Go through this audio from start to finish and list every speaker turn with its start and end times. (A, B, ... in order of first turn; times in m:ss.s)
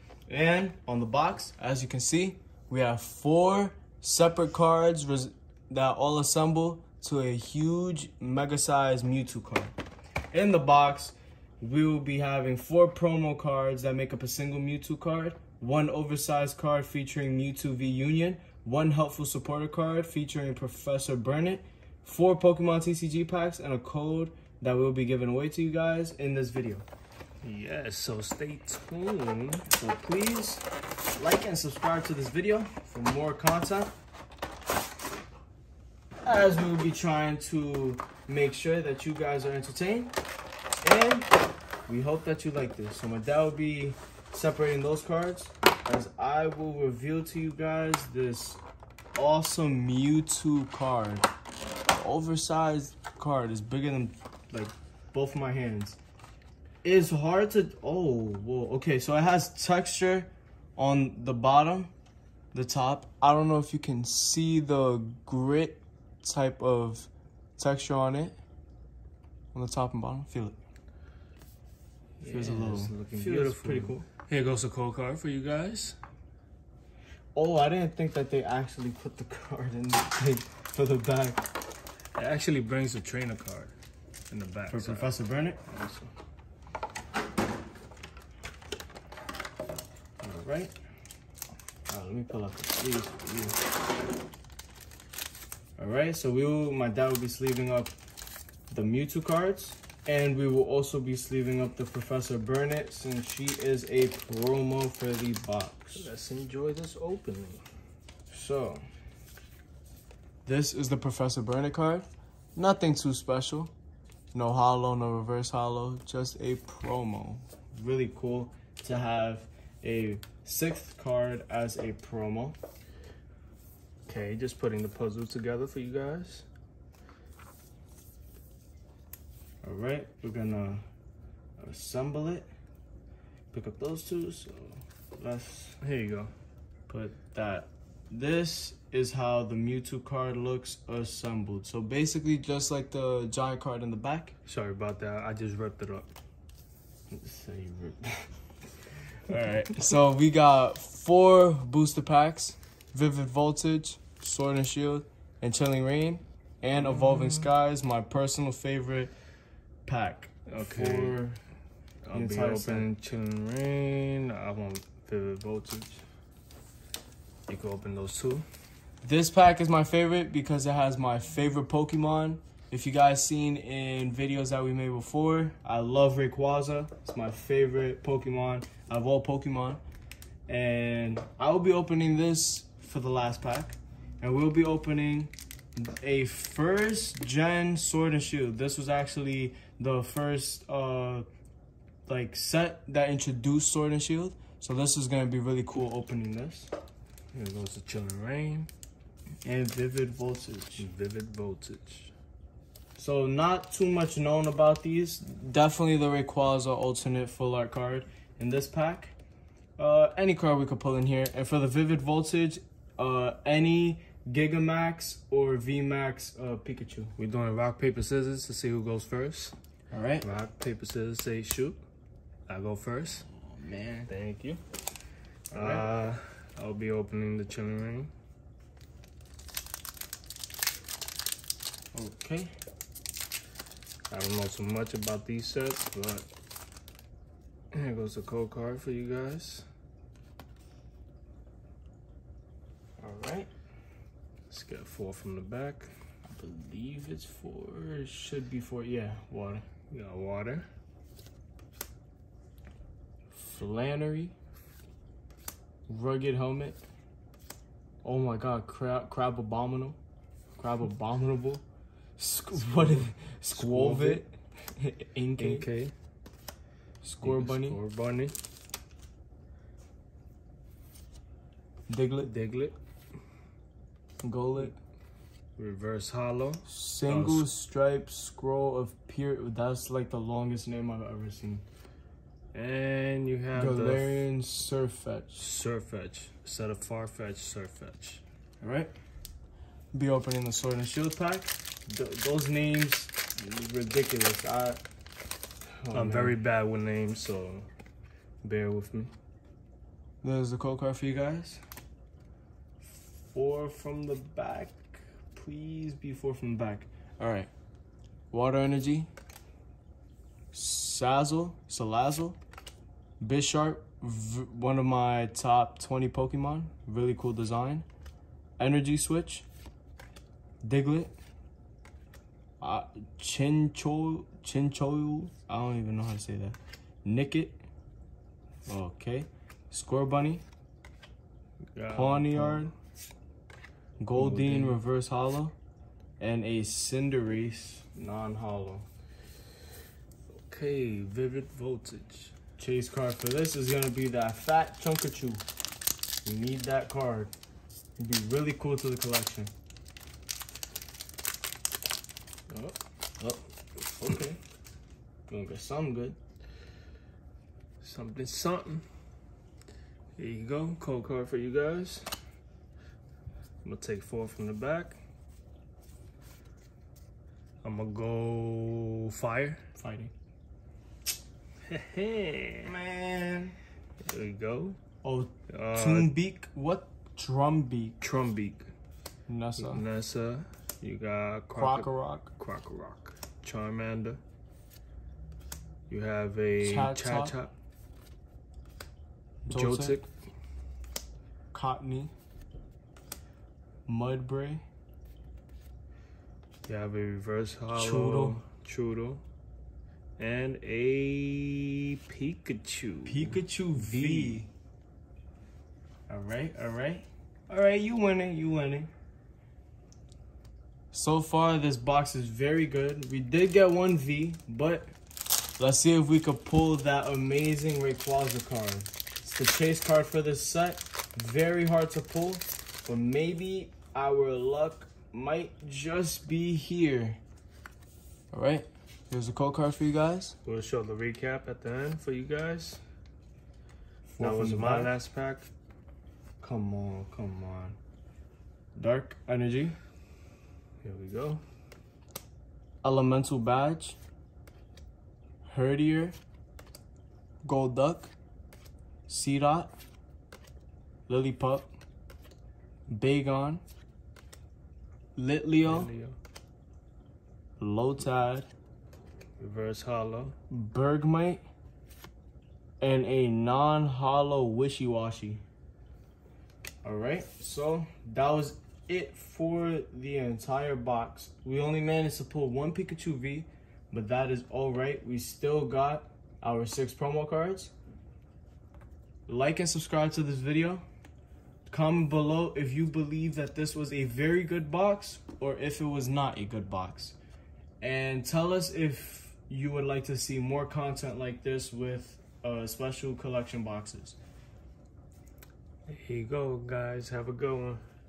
0:00.3-0:09.7 A
0:10.3-0:26.8 A
0:27.4-0:29.7 B
0:29.7-0:30.6 A
0:31.2-0:33.9 A
0:36.2-0:40.2 A
0:40.8-0:41.3 A
0:41.9-0:48.6 A
0:49.2-0:51.3 A
0:51.9-0:56.0 A
0:56.8-1:01.9 A
1:02.5-1:08.4 A
1:09.5-1:10.6 A
1:12.2-1:16.0 B
1:12.2-1:14.1 A
1:17.4-1:21.5 A
1:22.2-1:23.7 B
1:24.3-1:25.1 B
1:24.7-1:25.6 A
1:25.7-1:26.1 B
1:30.2-1:30.7 A
1:31.9-1:33.6 A
1:35.8-1:38.0 A
1:38.7-1:46.1 A
1:46.0-1:47.6 B
1:48.3-1:48.8 A
1:50.4-1:53.7 A
1:54.3-2:02.6 A
2:04.1-2:06.5 B
2:09.6-2:10.8 A
2:11.6-2:12.5 A
2:13.5-2:15.8 A
2:15.8-2:16.3 B
2:16.9-2:24.3 A
2:24.5-2:26.1 B
2:27.1-2:28.3 A
2:29.2-2:39.1 A
2:36.8-2:37.5 B
2:39.9-2:41.4 A
2:40.5-2:41.2 B
2:42.0-2:46.0 B
2:42.1-2:42.9 A
2:47.5-2:48.5 B
2:49.0-2:59.8 A
3:00.5-3:11.3 A
3:12.1-3:16.7 A
3:17.3-3:18.7 B
3:19.4-3:20.9 A
3:20.8-3:22.1 B
3:23.0-3:29.2 A
3:29.8-3:37.1 A
3:37.2-3:39.6 B
3:39.9-3:40.3 A
3:40.2-3:41.8 B
3:42.5-3:43.3 B
3:43.3-3:44.1 A
3:44.1-3:44.6 B
3:45.5-3:45.8 A
3:45.5-3:48.1 B
3:51.9-3:52.5 A
3:54.1-3:56.3 B
3:57.7-3:59.7 B
4:03.0-4:03.5 A
4:04.5-4:06.0 B
4:06.3-4:09.6 A
4:09.9-4:10.7 B
4:13.3-4:14.3 A
4:15.9-4:16.8 A
4:18.0-4:20.0 A
4:20.6-4:21.6 A
4:22.2-4:25.7 A
4:22.7-4:24.2 B
4:25.4-4:25.9 B
4:27.0-4:27.8 A
4:27.2-4:28.4 B
4:31.9-4:32.3 A
4:32.2-4:32.8 B
4:34.2-4:34.8 A
4:35.6-4:37.5 B
4:36.7-4:41.6 A
4:42.5-4:44.3 B
4:43.5-4:45.4 A
4:45.4-4:48.2 B
4:48.6-4:48.9 A
4:49.9-4:54.8 A
4:55.8-4:56.5 A
4:55.9-4:57.7 B
4:58.4-4:59.1 B
5:00.2-5:01.6 A
5:02.8-5:07.5 A
5:08.3-5:09.1 A
5:10.5-5:12.4 A
5:13.2-5:17.9 A
5:18.6-5:19.4 A
5:20.6-5:21.2 A
5:22.6-5:27.6 A
5:28.7-5:30.4 A
5:31.8-5:32.7 B
5:31.9-5:32.7 A
5:34.0-5:35.6 A
5:34.2-5:34.8 B
5:36.2-5:38.9 A
5:40.3-5:42.3 B
5:42.6-5:45.4 A
5:46.2-5:47.3 A
5:48.0-5:49.5 A
5:52.5-5:52.8 B
5:53.9-5:54.4 A
5:55.3-5:56.2 A
5:57.8-5:58.8 B
6:00.2-6:02.2 B
6:03.6-6:05.0 B
6:07.6-6:09.6 B
6:09.8-6:10.1 A
6:11.7-6:12.7 B
6:12.6-6:13.6 A
6:14.1-6:14.8 B
6:15.0-6:18.0 A
6:15.5-6:16.1 B
6:18.0-6:18.7 B
6:19.3-6:19.8 A
6:19.6-6:24.2 B
6:21.6-6:22.3 A
6:25.9-6:27.6 B
6:26.6-6:27.4 A
6:29.4-6:30.1 B
6:29.5-6:30.0 A
6:31.5-6:32.1 A
6:33.9-6:34.6 A
6:36.7-6:39.2 B
6:37.7-6:38.4 A
6:40.2-6:44.5 B
6:43.1-6:44.5 A
6:46.1-6:48.9 A
6:50.9-6:54.9 A
6:55.6-7:07.2 A
7:08.3-7:10.4 A
7:10.4-7:12.8 B
7:14.1-7:15.0 A
7:14.2-7:15.5 B
7:16.4-7:17.8 A
7:18.8-7:19.8 A
7:20.8-7:21.4 B
7:22.8-7:24.0 A
7:25.5-7:26.2 A
7:27.4-7:28.1 A
7:29.1-7:29.7 A
7:31.1-7:31.7 A
7:32.9-7:33.6 A
7:35.2-7:35.9 A
7:35.6-7:36.2 B
7:37.6-7:38.5 A
7:39.4-7:40.4 B
7:40.5-7:41.4 A
7:42.8-7:45.4 A
7:46.8-7:57.7 A
7:59.3-8:00.8 A
8:01.7-8:07.2 A
8:07.8-8:14.2 A
8:15.9-8:17.8 B